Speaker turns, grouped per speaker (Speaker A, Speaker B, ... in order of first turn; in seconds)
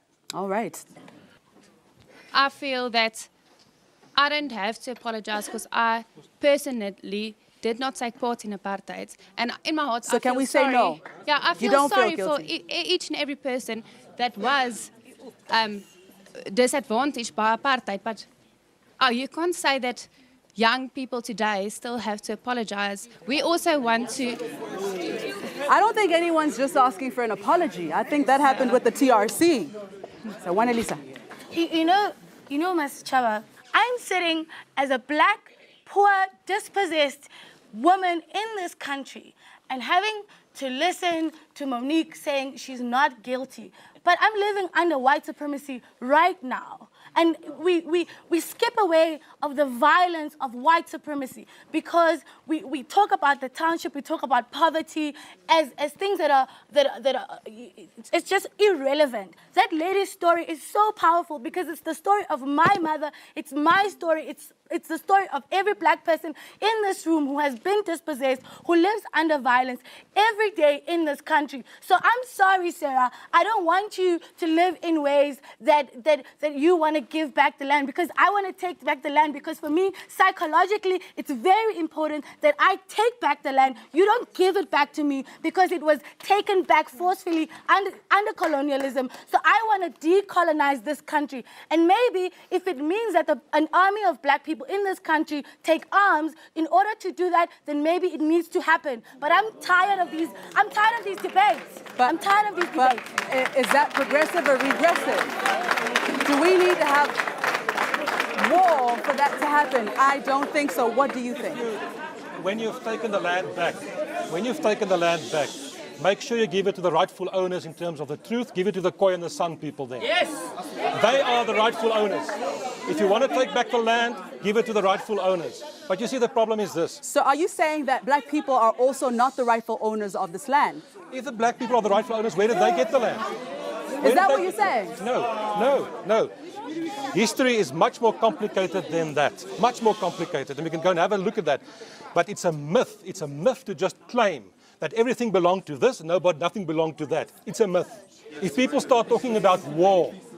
Speaker A: 0.3-0.9, 10.1-11.0, 11.5-12.5, 25.7-29.7, 30.4-31.0, 101.9-105.3, 106.2-107.2, 108.4-111.8, 127.0-130.8, 134.0-135.0
Speaker B: 2.3-3.3, 4.2-14.9, 15.5-15.8, 16.5-18.3, 19.0-24.4
Speaker C: 31.5-103.0
Speaker D: 112.4-120.0, 121.0-122.3, 122.9-127.0, 131.1-133.2, 134.0-136.3, 137.1-141.6, 142.1-150.2